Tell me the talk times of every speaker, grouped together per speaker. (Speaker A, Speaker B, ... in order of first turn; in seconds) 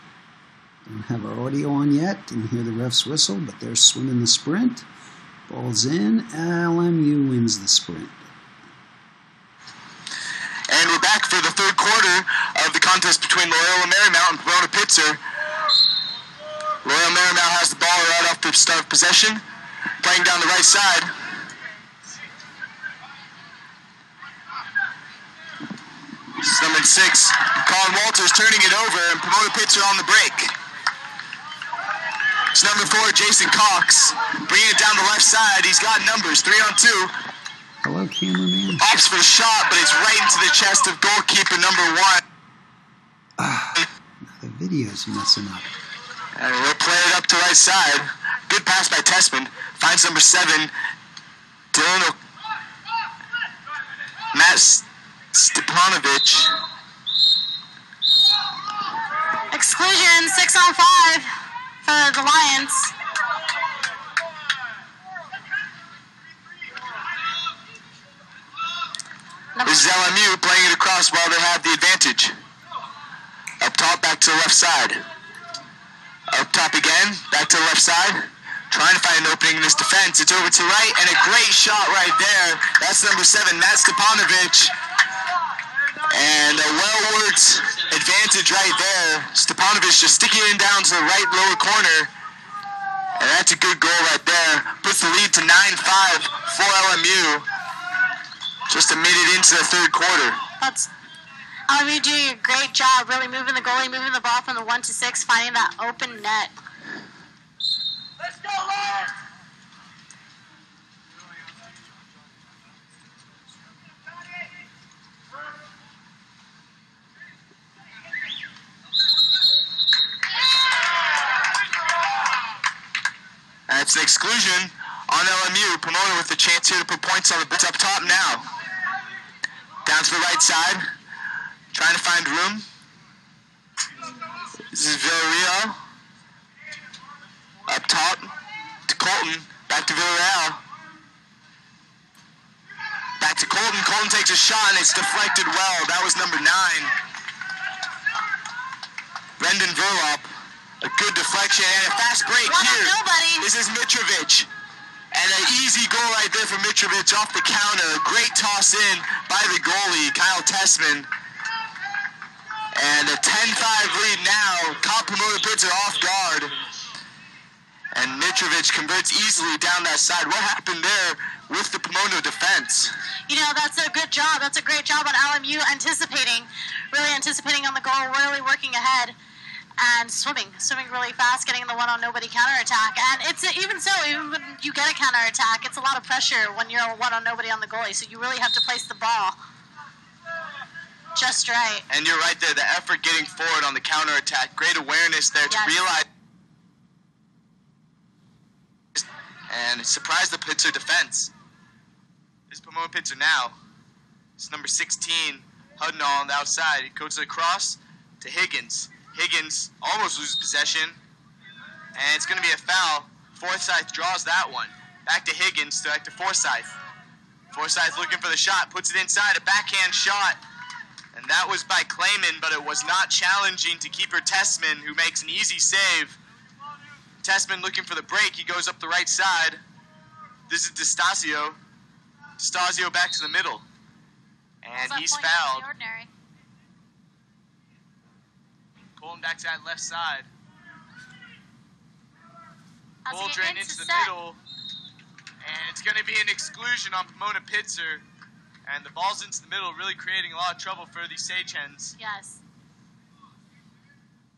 Speaker A: 0.9-4.9, 5.5-8.3, 37.8-38.8, 43.4-45.7
Speaker B: 10.7-15.2, 16.8-19.4, 20.0-21.1, 26.4-30.5, 32.5-37.1, 38.8-42.2, 46.4-50.7, 51.7-52.2, 54.3-56.5, 69.7-72.3, 73.6-75.0, 76.3-84.7, 86.1-92.1, 93.2-97.5, 98.7-100.4, 123.7-128.5, 129.8-130.8, 131.7-132.7, 134.7-135.8, 137.7-138.3, 138.9-140.6, 143.2-146.9, 149.4-150.3, 150.8-154.5, 155.1-161.1, 162.8-166.5, 167.9-172.9, 191.9-196.1, 199.0-201.3, 202.5-203.6, 204.4-211.0, 212.0-216.8, 217.5-220.4, 221.1-226.2, 227.2-229.6, 230.5-231.6, 232.4-233.7, 234.6-235.7, 239.0-240.3, 243.1-244.4, 245.4-248.0, 248.7-251.9
Speaker C: 59.5-61.3, 61.8-62.9, 69.6-70.1, 100.6-100.9, 101.7-106.5, 152.4-153.5, 173.3-179.2, 179.8-189.4, 191.2-191.8, 195.5-195.9, 234.8-236.1, 243.1-244.1, 252.0-252.4